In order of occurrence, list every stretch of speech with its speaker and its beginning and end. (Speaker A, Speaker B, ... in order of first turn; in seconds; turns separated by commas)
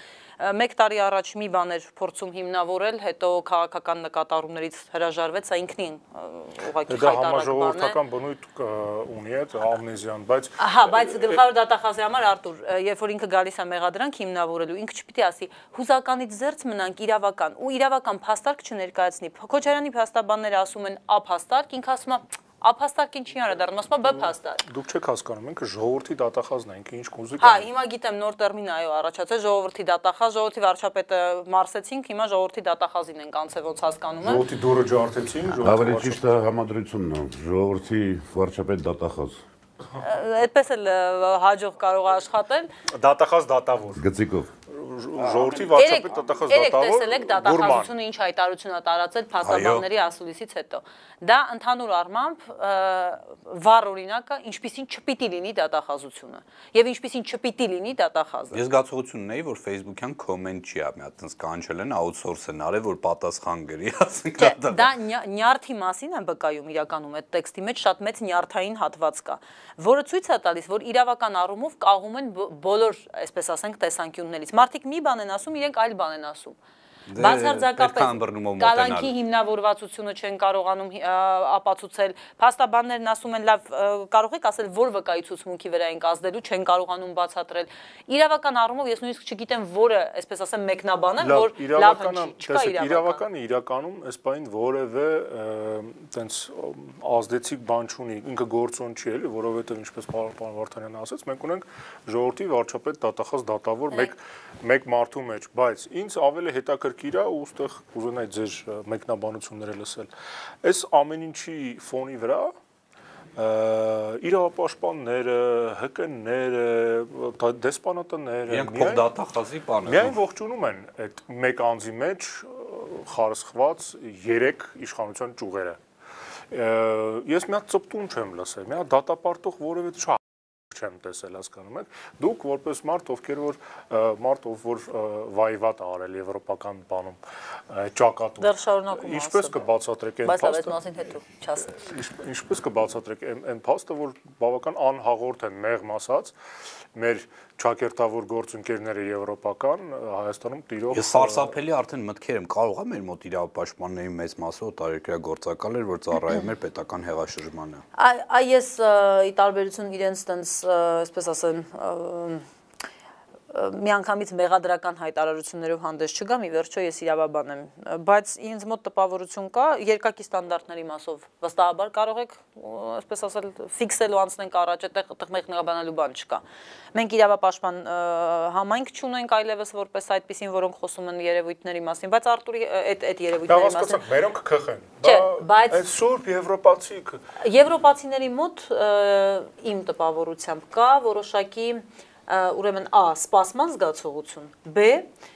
Speaker A: 0.4-8.0, Speaker B: 6.9-11.4, Speaker A: 10.6-24.6, Speaker B: 24.6-27.6, Speaker A: 27.4-34.5, Speaker B: 34.2-36.2, Speaker C: 35.5-39.4, Speaker A: 40.0-42.7, Speaker B: 42.9-44.0, Speaker C: 44.0-44.5, Speaker B: 44.7-47.9, Speaker D: 45.3-45.7, Speaker A: 45.8-58.6, Speaker D: 49.4-49.8, Speaker D: 58.5-64.9, Speaker A: 64.4-76.6, Speaker D: 77.1-79.1, Speaker A: 77.2-93.2, Speaker B: 91.2-110.1, Speaker B: 110.6-112.5, Speaker B: 113.4-119.0, Speaker D: 118.5-120.2, Speaker B: 119.9-125.8, Speaker B: 126.5-137.2, Speaker B: 137.7-140.8, Speaker A: 138.4-139.6, Speaker A: 140.2-141.8, Speaker B: 141.7-146.3, Speaker B: 146.9-151.5, Speaker D: 150.9-157.8, Speaker A: 158.0-162.4, Speaker A: 163.5-176.4, Speaker A: 176.9-184.0, Speaker B: 183.5-187.2, Speaker A: 185.0-185.8, Speaker A: 187.4-195.1